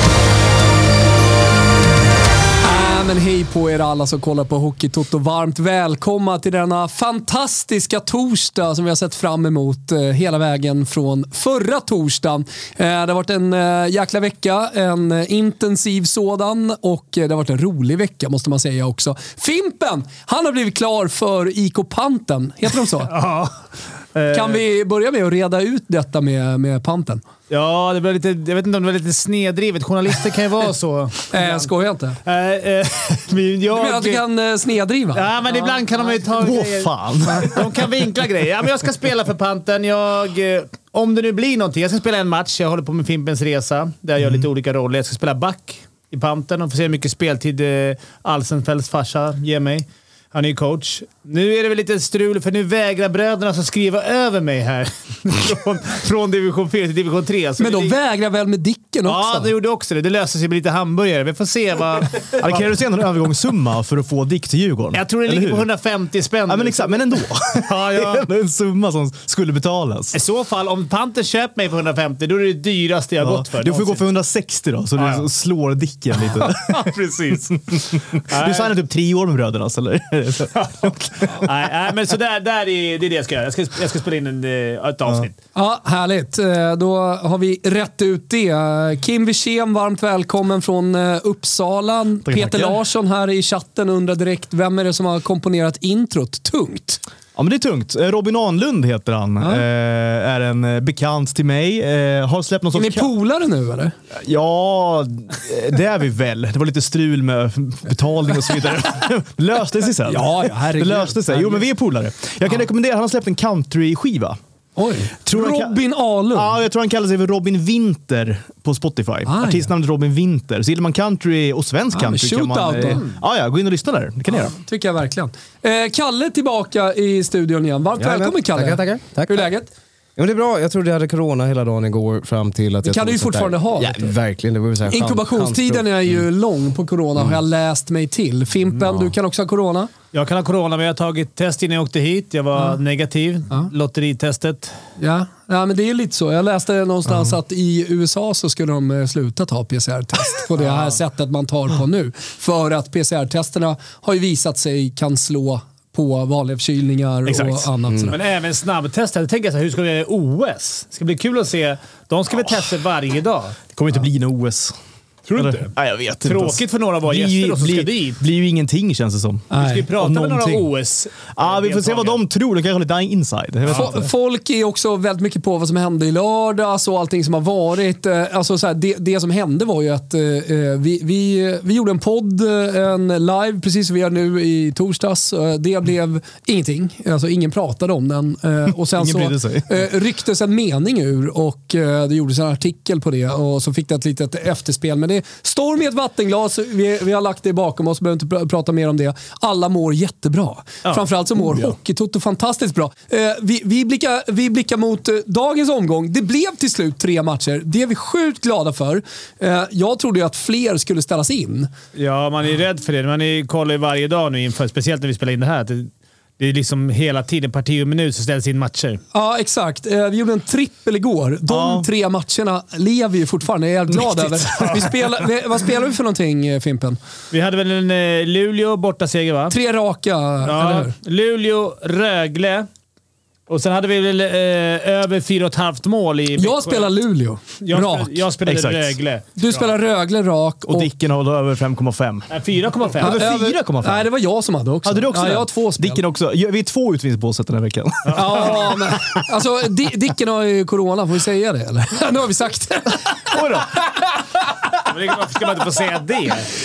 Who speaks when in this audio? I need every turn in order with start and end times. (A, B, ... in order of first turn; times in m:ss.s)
0:02.6-0:23.1 A
0:23.1-0:23.5 B
0:24.1-0:24.6 B
0:24.3-0:27.2 A
0:27.5-0:31.7 B
0:31.3-0:32.2 A
0:32.2-0:34.2 B
0:33.3-0:33.7 C
0:33.7-0:35.8 A
0:35.1-0:58.0 B
0:36.3-0:37.7 C
0:57.6-0:59.5 A
0:59.0-1:02.6 B
1:02.4-1:05.7 C
1:04.9-1:08.2 B
1:06.5-1:10.2 C
1:10.1-1:14.0 B
1:13.2-1:21.5 C
1:15.0-1:15.2 B
1:16.3-1:17.6 B
1:18.3-1:18.7 B
1:21.4-1:25.4 B
1:25.5-1:37.0 A
1:32.2-1:32.8 C
1:37.4-1:43.1 C
1:42.7-1:43.9 A
1:44.1-1:54.4 C
1:50.0-1:51.6 A
1:54.8-1:56.6 A
1:55.2-1:55.8 C
1:56.3-2:04.5 C
1:59.3-1:59.7 A
2:01.9-2:03.0 A
2:04.3-2:09.7 A
2:08.0-2:09.5 D
2:10.2-2:15.9 D
2:12.8-2:14.2 A
2:14.9-2:19.9 A
2:20.1-2:24.7 B
2:25.0-2:38.2 A
2:30.6-2:31.0 B
2:37.3-2:43.6 B
2:43.7-2:44.7 C
2:45.3-2:45.7 B
2:45.3-2:50.7 C
2:46.2-2:48.2 B
2:49.5-2:49.9 A
2:49.5-2:52.2 B
2:51.3-2:54.1 C
2:53.7-3:31.7 A
3:08.9-3:09.8 C
3:20.8-3:21.7 B
3:31.9-3:39.0 B
3:39.1-3:47.0 A
3:41.5-3:41.9 C
3:43.9-3:45.2 C
3:47.3-3:49.5 B
3:49.5-3:50.9 A
3:50.4-3:52.7 B
3:53.5-3:56.9 B
3:56.4-3:58.2 A
3:57.6-3:59.7 B
3:58.4-3:59.0 C
3:59.4-4:00.9 A
4:00.7-4:02.3 C
4:02.3-4:03.2 B
4:03.0-4:04.1 C
4:03.0-4:06.0 A
4:04.8-4:08.8 C
4:08.1-4:08.5 B
4:08.1-4:13.4 A
4:13.3-4:13.8 C
4:14.8-4:16.5 B